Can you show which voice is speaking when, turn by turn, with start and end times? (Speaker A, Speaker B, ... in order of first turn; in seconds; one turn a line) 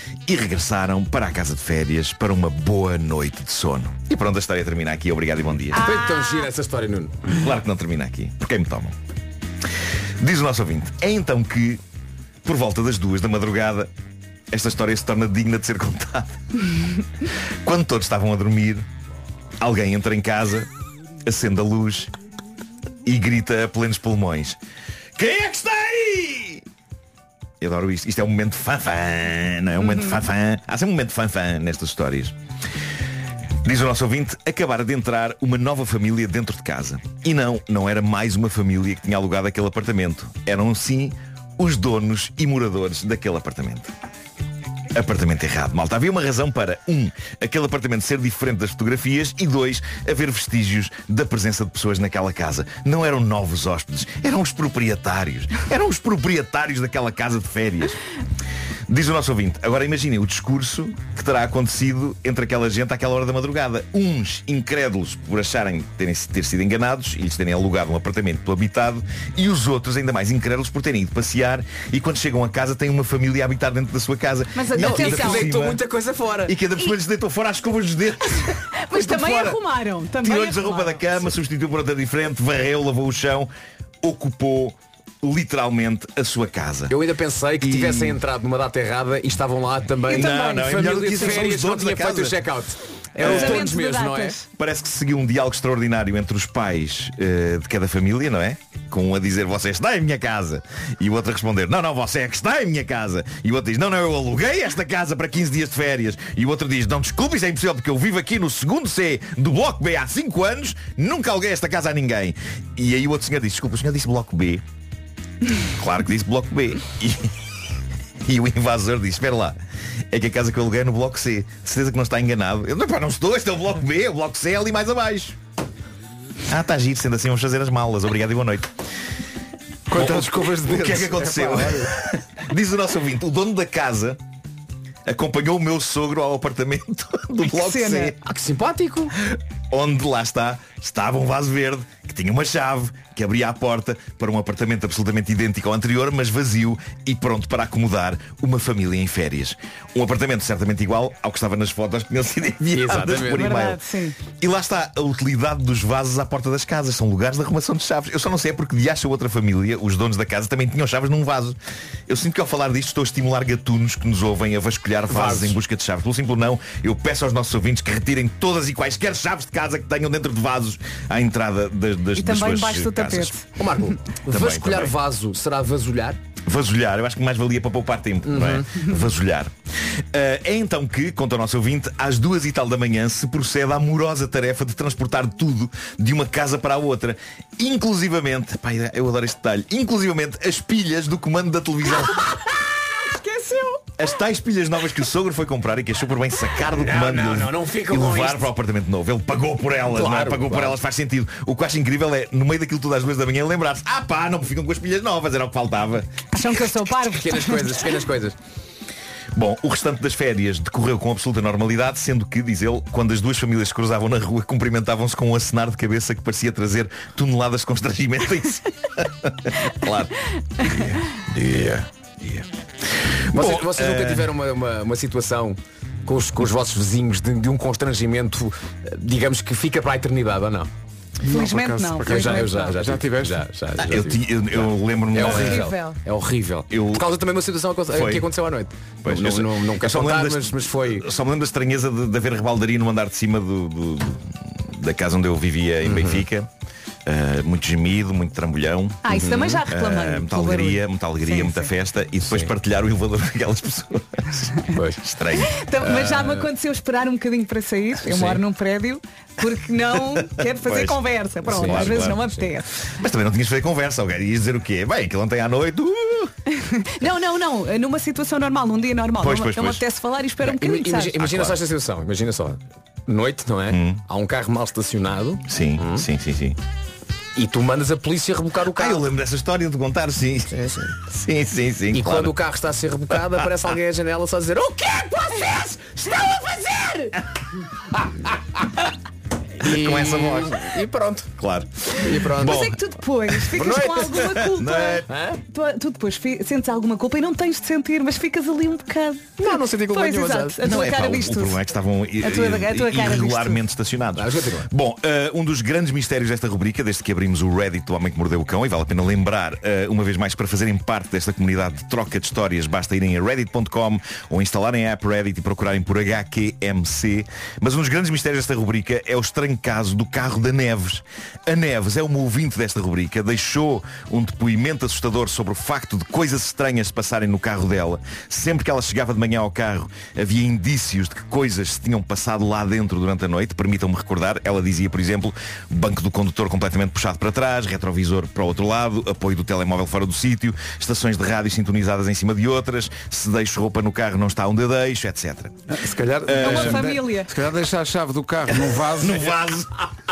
Speaker A: 0.3-5.8
Speaker B: 5.7-6.5
Speaker C: 5.7-7.2
Speaker A: 7.3-8.9
Speaker A: 10.2-11.8
Speaker A: 12.4-13.9
Speaker A: 14.5-16.4
Speaker A: 17.6-18.9
Speaker A: 19.6-20.7
Speaker A: 21.2-22.1
Speaker A: 23.0-24.6
Speaker A: 25.1-26.6
Speaker A: 27.6-32.3
Speaker A: 33.6-43.9
Speaker A: 44.9-58.0
Speaker A: 58.9-75.8
Speaker B: 74.5-75.5
Speaker C: 74.8-76.5
Speaker A: 76.5-79.6
Speaker B: 78.8-81.1
Speaker A: 80.2-83.5
Speaker A: 84.0-86.9
Speaker C: 86.9-94.4
Speaker A: 87.6-88.2
Speaker B: 90.1-91.4
Speaker A: 90.1-92.4
Speaker A: 93.2-93.7
Speaker B: 93.2-94.5
Speaker A: 94.5-114.6
Speaker A: 115.8-117.3
Speaker A: 118.2-119.6
Speaker A: 120.1-125.3
Speaker A: 126.5-128.7
Speaker D: 129.9-131.9
Speaker A: 129.9-134.2
Speaker A: 135.1-138.2
Speaker B: 137.4-138.1
Speaker C: 138.2-139.1
Speaker A: 139.7-153.8
Speaker C: 152.7-153.5
Speaker B: 153.3-154.2
Speaker A: 154.4-161.6
Speaker A: 162.1-173.4
Speaker C: 165.1-165.6
Speaker B: 172.2-173.4
Speaker C: 173.6-176.2
Speaker A: 174.3-174.9
Speaker A: 176.4-179.5
Speaker C: 178.2-178.8
Speaker A: 180.1-192.2
Speaker B: 193.0-193.8
Speaker A: 194.0-206.1
Speaker C: 196.7-198.5
Speaker C: 199.9-200.8
Speaker B: 206.3-207.7
Speaker C: 207.0-208.3
Speaker A: 209.3-222.4
Speaker A: 223.3-224.3
Speaker C: 223.3-230.7
Speaker D: 231.2-233.4
Speaker B: 231.3-232.7
Speaker C: 232.0-241.1
Speaker A: 233.8-235.7
Speaker B: 235.2-236.0
Speaker A: 236.7-237.1
Speaker A: 237.9-238.3
Speaker A: 239.0-246.5
Speaker C: 245.8-246.2
Speaker A: 247.1-249.0
Speaker B: 249.0-251.7
Speaker C: 249.1-249.6
Speaker A: 249.7-255.6
Speaker C: 252.2-252.5
Speaker C: 254.7-255.0
Speaker B: 255.4-262.7
Speaker C: 255.8-256.4
Speaker C: 258.1-258.4
Speaker A: 260.5-262.3
Speaker C: 261.5-262.4
Speaker A: 262.8-266.3
Speaker B: 266.5-271.2
Speaker A: 269.2-269.8
Speaker C: 270.4-276.1
Speaker A: 271.1-271.6
Speaker A: 273.7-274.0
Speaker A: 275.5-276.6
Speaker C: 277.4-279.1
Speaker A: 278.7-282.4
Speaker C: 280.5-280.9
Speaker C: 281.9-287.1
Speaker C: 289.6-291.3
Speaker A: 289.7-290.5
Speaker A: 291.4-292.7
Speaker C: 292.0-292.7
Speaker B: 292.4-301.6
Speaker C: 293.5-294.4
Speaker A: 294.2-295.1
Speaker C: 295.1-295.4
Speaker C: 299.4-300.7
Speaker A: 300.6-345.6
Speaker B: 302.2-303.6
Speaker C: 304.1-304.7
Speaker D: 345.7-349.3
Speaker A: 346.2-346.9
Speaker B: 346.4-347.3
Speaker A: 348.5-349.7